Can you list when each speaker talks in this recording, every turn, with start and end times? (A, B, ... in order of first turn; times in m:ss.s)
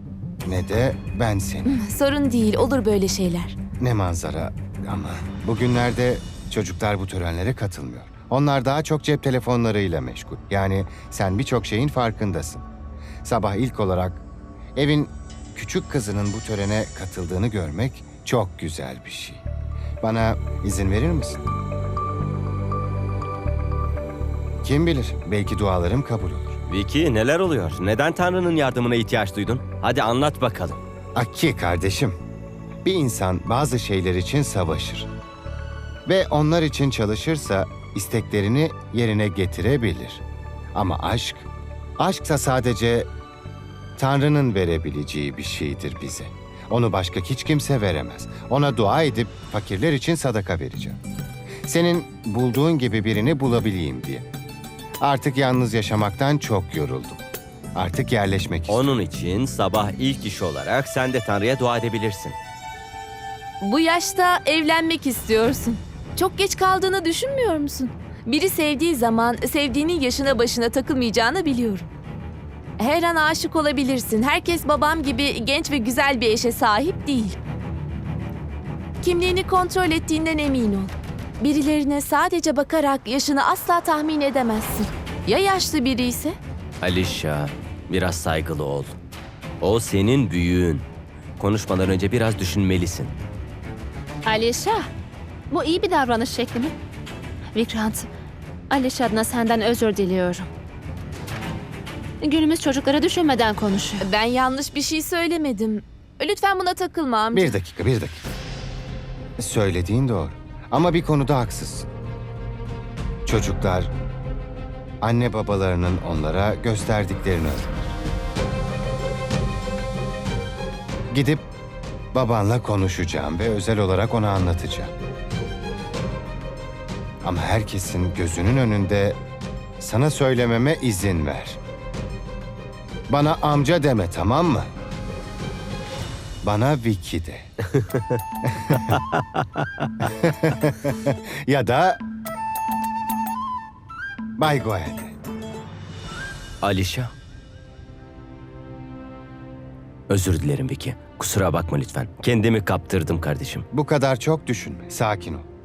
0:00.4-0:01.8 A
0:01.7-0:03.6 B
0:03.8-0:12.6 A
0:13.2-0:14.2 A
0:14.8-0:19.4 A
0:20.0-0:21.4 A
0:24.6-0:26.6 A
0:26.7-0:30.8 C
0:31.2-0:32.2 A
0:32.8-0:35.1 A
0:36.1-0:40.2 A
0:40.8-0:43.1 A
0:44.0-0:51.0 A
0:51.7-0:54.3 A
0:55.0-0:57.2 A
0:57.8-0:58.8 A
0:58.7-1:02.4 C
1:03.6-1:11.8 B
1:12.8-1:17.4 B
1:19.0-1:26.4 B
1:26.8-1:29.0 C
1:29.6-1:30.8 C
1:31.4-1:33.2 C
1:34.3-1:34.9 D
1:35.5-1:36.8 D
1:37.6-1:38.1 D
1:38.7-1:40.5 D
1:42.2-1:44.1 D
1:44.0-1:47.6 B
1:47.3-1:48.3 A
1:49.4-1:51.9 A
1:53.3-1:53.9 A
1:55.0-1:57.9 A
2:01.1-2:01.5 A
2:02.1-2:04.9 A
2:07.2-2:09.2 A
2:09.8-2:11.6 A
2:13.1-2:14.7 A
2:16.4-2:17.5 A
2:17.8-2:18.2 C
2:18.4-2:18.8 A
2:18.9-2:19.9 C
2:20.0-2:22.0 A
2:24.4-2:25.1 A
2:26.6-2:27.1 C
2:30.1-2:33.7 C
2:33.7-2:35.5 A